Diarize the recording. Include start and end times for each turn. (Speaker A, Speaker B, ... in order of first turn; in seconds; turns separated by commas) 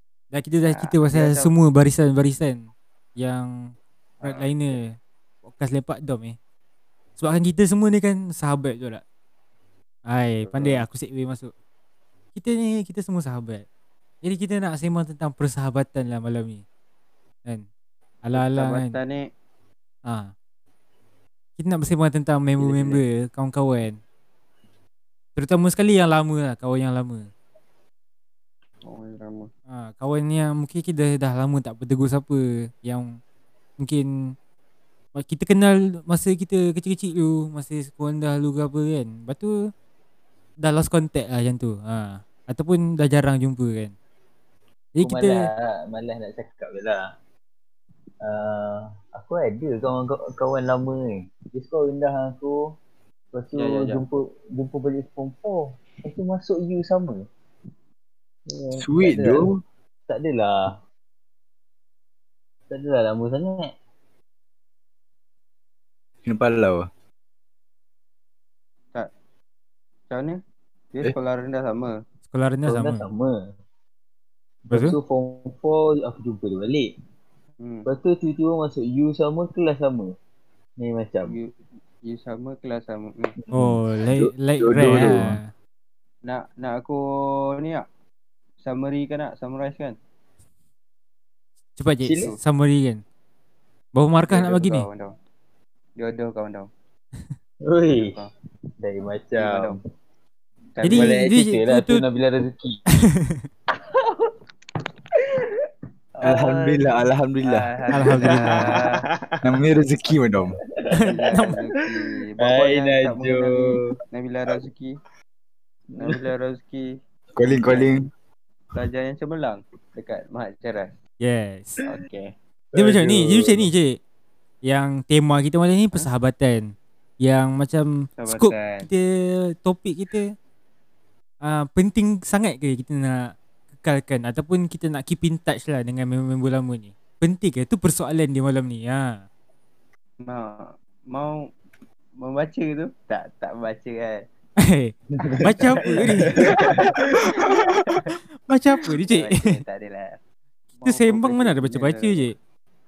Speaker A: 0.3-6.3, Speaker B: 0.7-1.5, Speaker B: 4.2-4.5, Speaker A: 7.2-9.0, Speaker A: 10.1-11.5, Speaker B: 10.4-10.8, Speaker A: 12.3-13.7, Speaker A: 14.2-16.6, Speaker A: 18.2-19.0, Speaker B: 18.3-19.2, Speaker A: 20.1-20.3, Speaker A: 21.6-24.0, Speaker B: 22.6-23.0, Speaker A: 25.4-27.3, Speaker B: 28.9-29.5, Speaker A: 29.7-33.1, Speaker A: 33.8-34.3, Speaker A: 35.1-39.5, Speaker A: 40.6-43.9, Speaker A: 44.9-45.5, Speaker C: 45.0-47.1, Speaker C: 48.2-52.8, Speaker C: 53.3-57.3, Speaker B: 53.5-54.0, Speaker C: 58.5-59.5, Speaker D: 58.8-59.6, Speaker C: 60.1-60.8, Speaker C: 62.7-63.7, Speaker D: 66.2-66.9, Speaker B: 70.1-70.4, Speaker B: 70.9-72.0, Speaker A: 72.3-73.0, Speaker C: 72.7-73.5, Speaker C: 74.7-76.9, Speaker A: 74.7-75.0, Speaker B: 77.6-77.9, Speaker C: 77.8-80.1, Speaker C: 80.8-81.3, Speaker B: 81.2-83.3, Speaker A: 83.5-85.5, Speaker D: 83.6-85.4, Speaker B: 86.2-87.8, Speaker B: 88.6-90.0, Speaker A: 91.8-93.0, Speaker C: 92.0-92.3, Speaker A: 93.9-94.9, Speaker B: 94.3-95.1, Speaker B: 96.0-96.7, Speaker C: 97.7-98.2, Speaker B: 97.9-98.3, Speaker C: 98.8-99.8, Speaker B: 99.3-99.8, Speaker B: 100.8-101.3, Speaker A: 100.8-102.0, Speaker C: 100.9-102.8, Speaker B: 106.2-106.8, Speaker D: 106.2-107.7, Speaker B: 107.4-109.0, Speaker A: 107.9-108.7, Speaker C: 108.2-109.4, Speaker D: 109.4-110.6, Speaker C: 110.8-111.0, Speaker B: 110.9-115.0, Speaker A: 111.0-111.5, Speaker C: 112.4-114.0, Speaker C: 115.9-116.2, Speaker B: 116.0-118.0, Speaker D: 117.3-118.1, Speaker B: 118.7-120.9, Speaker A: 121.2-121.8, Speaker B: 121.8-122.3, Speaker C: 122.7-123.7, Speaker A: 122.7-124.0, Speaker A: 124.6-126.7, Speaker A: 127.2-130.3, Speaker B: 128.2-128.9, Speaker A: 131.4-139.2, Speaker B: 140.2-141.4, Speaker B: 142.2-144.2, Speaker A: 144.6-146.6, Speaker C: 145.3-146.6, Speaker B: 145.6-148.1, Speaker A: 148.5-149.6, Speaker B: 149.0-150.2, Speaker B: 150.8-152.3, Speaker A: 150.8-152.3